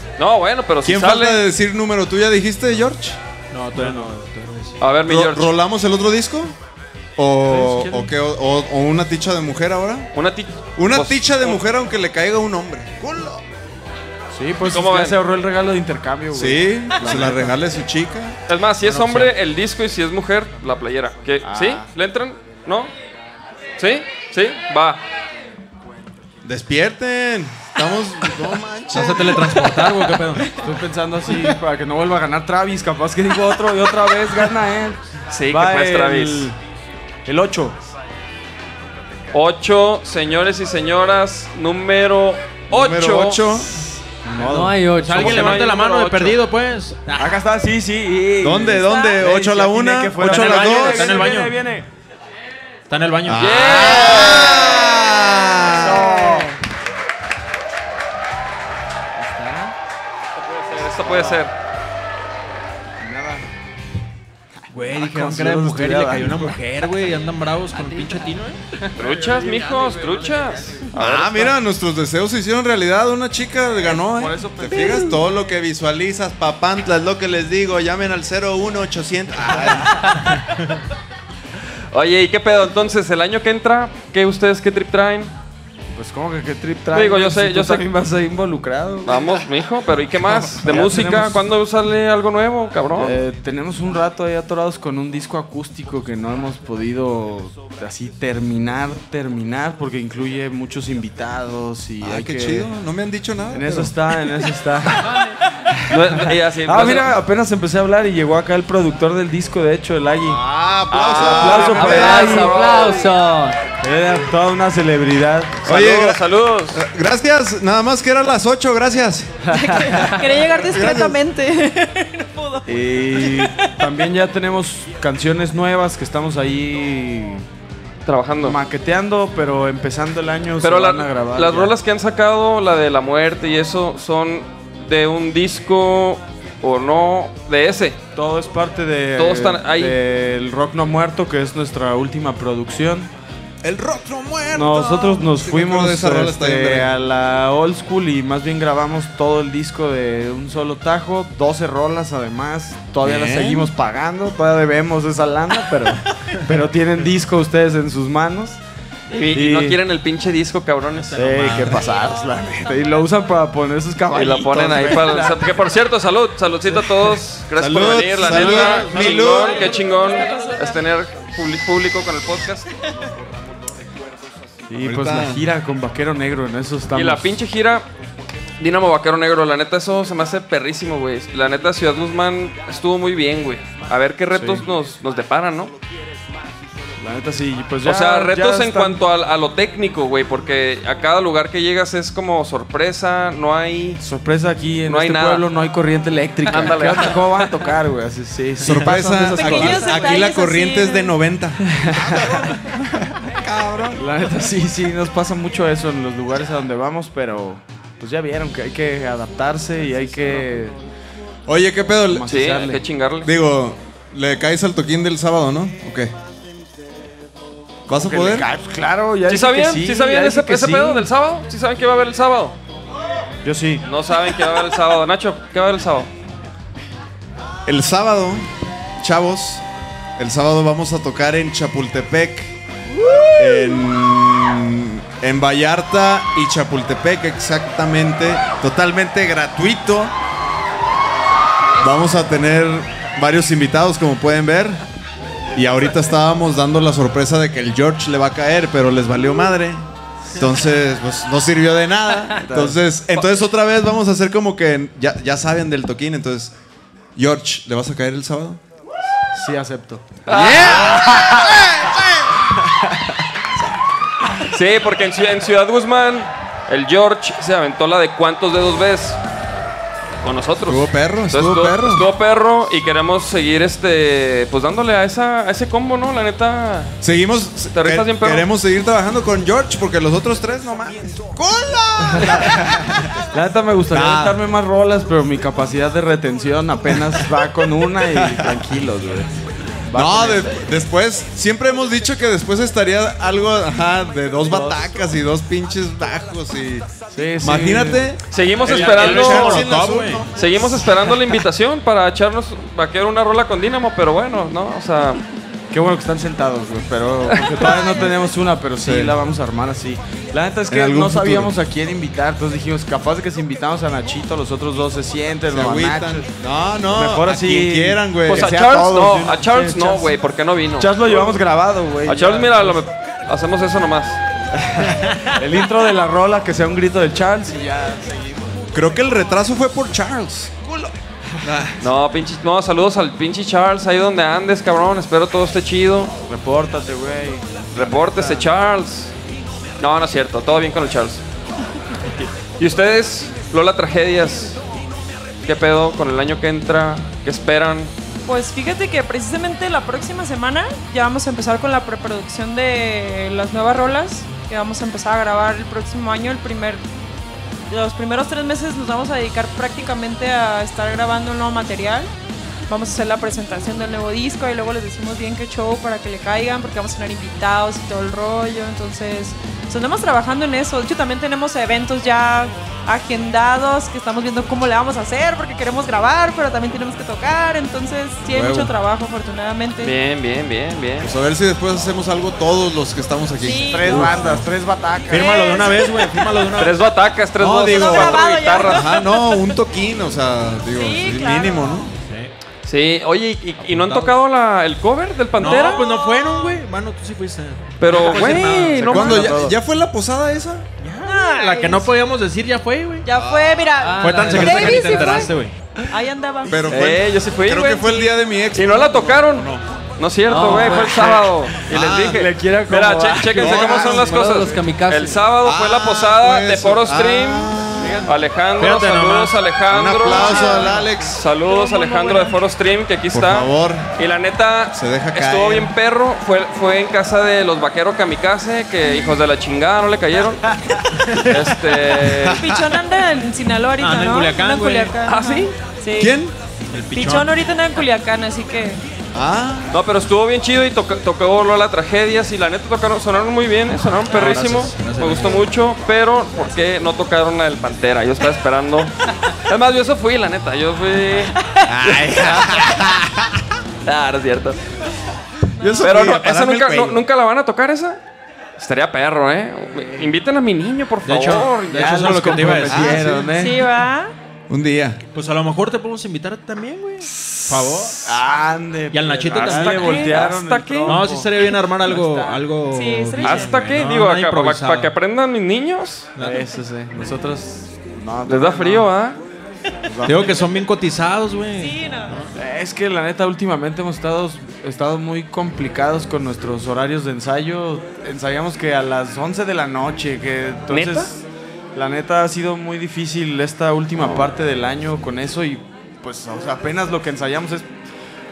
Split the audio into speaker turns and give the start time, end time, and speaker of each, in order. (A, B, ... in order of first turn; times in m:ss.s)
0:00.2-0:01.4 A
0:00.8-0:03.2 B
0:03.5-0:04.8 C
0:03.8-0:04.1 D
0:04.8-0:05.5 A
0:05.1-0:06.5 B
0:07.2-0:10.1 B
0:07.5-0:08.0 D
0:10.1-0:11.6 A
0:10.8-0:13.4 B
0:14.3-0:17.6 D
0:14.6-0:15.2 A
0:16.3-0:18.4 B
0:18.5-0:22.9 A
0:18.9-0:19.3 C
0:21.4-0:21.9 D
0:23.8-0:25.0 A
0:26.4-0:29.5 B
0:28.9-0:30.5 C
0:30.5-0:36.5 D
0:35.3-0:36.5 A
0:37.2-0:37.8 D
0:39.3-0:43.6 A
0:42.7-0:43.8 B
0:44.2-0:45.6 D
0:44.4-0:45.6 E
0:44.9-0:47.3 C
0:45.1-0:46.3 A
0:47.1-0:51.8 D
0:48.4-0:51.2 B
0:48.8-0:49.2 F
0:50.2-0:51.5 C
0:52.9-0:53.5 C
0:53.2-0:56.4 B
0:53.4-0:55.0 A
0:55.7-0:56.5 D
1:00.4-1:01.5 A
1:01.0-1:01.4 D
1:03.0-1:03.4 D
1:04.7-1:08.6 C
1:04.8-1:06.6 D
1:07.8-1:08.2 E
1:09.0-1:11.6 A
1:09.2-1:10.7 D
1:10.9-1:20.2 B
1:13.8-1:15.2 D
1:19.5-1:19.8 D
1:21.9-1:25.3 A
1:25.9-1:29.4 D
1:26.9-1:27.8 A
1:29.0-1:33.2 A
1:30.3-1:31.4 D
1:32.9-1:42.7 D
1:42.0-1:43.9 B
1:43.5-1:50.4 D
1:45.9-1:47.1 A
1:50.2-1:52.3 B
1:50.9-1:53.1 A
1:51.1-1:52.6 D
1:51.7-1:53.6 E
1:53.8-1:55.7 D
1:55.6-1:56.8 A
1:55.6-1:59.3 B
1:59.5-2:00.2 D
1:59.5-2:03.8 F
2:00.5-2:01.2 B
2:02.6-2:07.4 D
2:08.0-2:08.6 A
2:08.4-2:11.7 D
2:10.6-2:18.0 A
2:18.1-2:23.1 D
2:19.2-2:20.0 A
2:23.6-2:26.9 B
2:24.5-2:38.6 D
2:33.0-2:33.7 B
2:39.1-2:41.2 A
2:39.3-2:39.8 D
2:41.0-2:41.8 C
2:41.1-2:45.4 D
2:44.1-2:52.7 A
2:47.6-2:49.7 B
2:48.2-2:49.3 C
2:49.6-2:50.6 F
2:54.7-2:57.2 D
2:54.8-2:55.5 B
2:56.9-2:57.8 A
2:58.6-3:05.7 A
3:04.3-3:04.6 D
3:07.0-3:09.0 D
3:07.8-3:14.0 A
3:14.0-3:20.1 D
3:14.8-3:15.4 A
3:16.4-3:17.5 A
3:18.6-3:18.9 C
3:18.6-3:22.6 B
3:19.3-3:21.2 F
3:21.8-3:22.6 D
3:23.3-3:24.0 B
3:23.9-3:30.8 D
3:31.5-3:32.3 B
3:32.1-3:32.8 D
3:32.3-3:33.3 A
3:33.2-3:36.1 B
3:37.9-3:38.5 B
3:37.9-3:41.1 D
3:39.3-3:42.6 A
3:43.4-3:43.8 D
3:43.8-3:46.1 A
3:47.6-3:48.4 B
3:49.0-3:49.6 B
3:50.2-3:52.6 B
3:53.4-4:00.1 B
4:01.8-4:04.8 B
4:05.5-4:16.5 B
4:12.4-4:12.8 D
4:17.2-4:18.6 B
4:19.3-4:21.6 D
4:20.2-4:21.1 A
4:20.3-4:22.1 B
4:24.5-4:29.2 A
4:30.2-4:37.0 A
4:30.6-4:32.1 B
4:37.0-4:43.1 B
4:37.7-4:38.4 A
4:42.0-4:42.6 D
4:43.3-4:49.3 D
4:43.9-4:44.4 B
4:48.2-4:48.6 B
4:49.9-4:50.5 D
4:49.9-5:00.8 B
4:54.5-4:54.8 D
4:57.1-4:58.1 D
4:58.3-4:59.7 A
4:58.6-5:00.3 C
5:00.3-5:05.2 A
5:05.7-5:16.2 D
5:07.4-5:07.8 A
5:08.8-5:09.2 B
5:10.7-5:11.5 B
5:15.5-5:18.5 B
5:16.9-5:20.1 D
5:18.3-5:21.4 A
5:20.8-5:22.7 D
5:22.0-5:24.2 A
5:24.6-5:28.6 D
5:28.7-5:31.8 B
5:31.8-5:36.1 A
5:36.3-5:38.4 D
5:37.7-5:39.1 A
5:39.8-5:41.2 A
5:42.6-5:44.6 A
5:45.4-5:47.9 A
5:48.2-5:56.8 F
5:57.7-6:02.1 F
6:02.7-6:19.9 F
6:18.3-6:18.7 B
6:19.8-6:21.1 A
6:21.0-6:24.4 B
6:23.4-6:24.0 F
6:23.7-6:25.4 D
6:24.0-6:24.4 C
6:25.1-6:26.8 C
6:25.1-6:26.5 F
6:26.6-6:29.0 A
6:27.4-6:31.9 B
6:27.7-6:29.5 F
6:30.7-6:31.8 F
6:32.0-6:32.3 C
6:32.6-6:35.9 A
6:33.6-6:34.2 C
6:35.4-6:39.3 C
6:35.5-6:36.4 F
6:37.8-6:39.4 A
6:38.8-6:40.6 B
6:39.0-6:39.5 D
6:40.8-6:43.0 C
6:41.0-6:41.9 F
6:43.0-6:45.3 F
6:43.1-6:43.7 B
6:44.0-6:45.6 C
6:45.9-6:46.7 F
6:46.4-6:49.6 B
6:46.7-7:10.5 A
6:51.6-6:52.2 B
6:52.1-6:54.6 D
6:53.4-6:54.1 B
6:55.4-6:58.1 B
6:58.6-6:59.4 C
6:59.7-7:01.2 B
7:00.1-7:00.8 F
7:01.4-7:02.4 F
7:03.1-7:03.9 B
7:04.7-7:05.7 B
7:11.2-7:12.4 A
7:12.0-7:12.7 B
7:12.3-7:16.2 F
7:13.8-7:15.0 C
7:15.0-7:15.5 A
7:16.0-7:16.3 B
7:16.7-7:17.3 C
7:16.9-7:18.8 F
7:19.1-7:19.8 B
7:19.7-7:31.4 A
7:24.1-7:25.4 C
7:31.6-7:33.4 B
7:31.9-7:32.7 A
7:33.8-7:34.6 A
7:35.6-7:37.0 B
7:35.8-7:38.0 A
7:38.6-7:42.0 A
7:39.8-7:40.1 D
7:41.0-7:43.2 C
7:41.1-7:43.7 D
7:42.7-7:43.4 B
7:43.3-7:44.1 F
7:44.5-7:45.0 B
7:45.1-7:48.0 C
7:48.0-7:51.3 D
7:48.9-7:50.0 C
7:49.3-7:51.0 A
7:50.8-7:54.9 C
7:51.8-7:52.4 D
7:52.7-7:53.6 F
7:53.2-7:56.1 A
7:56.2-7:56.4 C
7:56.2-7:58.9 D
7:58.2-7:59.2 A
7:59.8-8:00.2 D
8:00.0-8:02.3 C
8:01.6-8:02.2 F
8:02.3-8:11.2 D
8:10.7-8:11.1 A
8:11.7-8:17.7 D
8:14.0-8:14.3 A